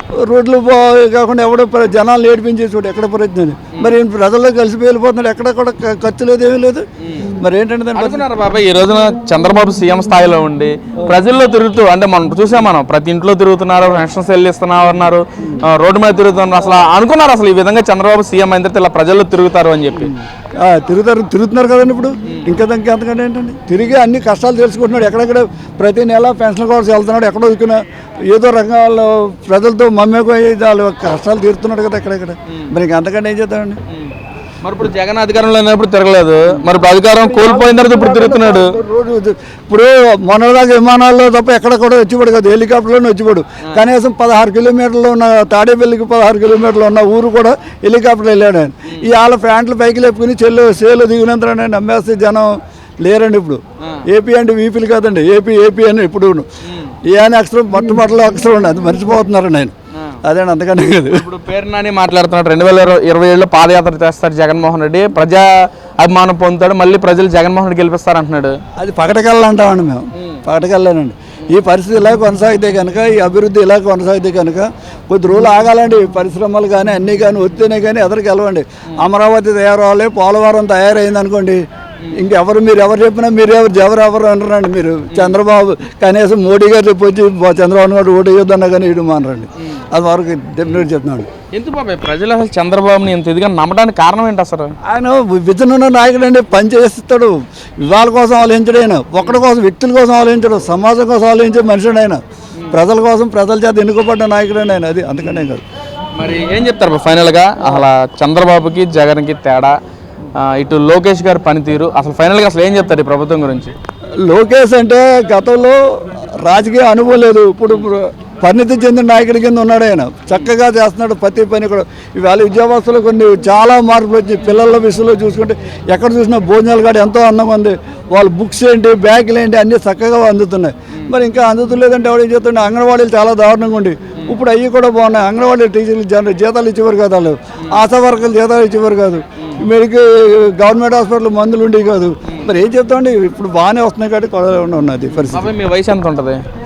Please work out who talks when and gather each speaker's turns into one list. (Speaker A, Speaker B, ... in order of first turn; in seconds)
Speaker A: 0.2-6.8, 7.4-8.2, 20.0-33.8, 36.5-56.5, 57.1-59.7, 60.2-61.2, 68.8-81.6, 82.1-91.3, 94.8-102.2, 102.7-105.6, 107.6-107.9, 114.3-145.5
Speaker B: 7.0-7.3, 7.9-20.1, 33.9-38.8, 56.6-57.0, 61.1-65.5, 66.0-68.5, 70.2-70.4, 85.1-85.4, 91.5-94.7, 106.2-109.8, 110.3-113.7, 145.2-146.4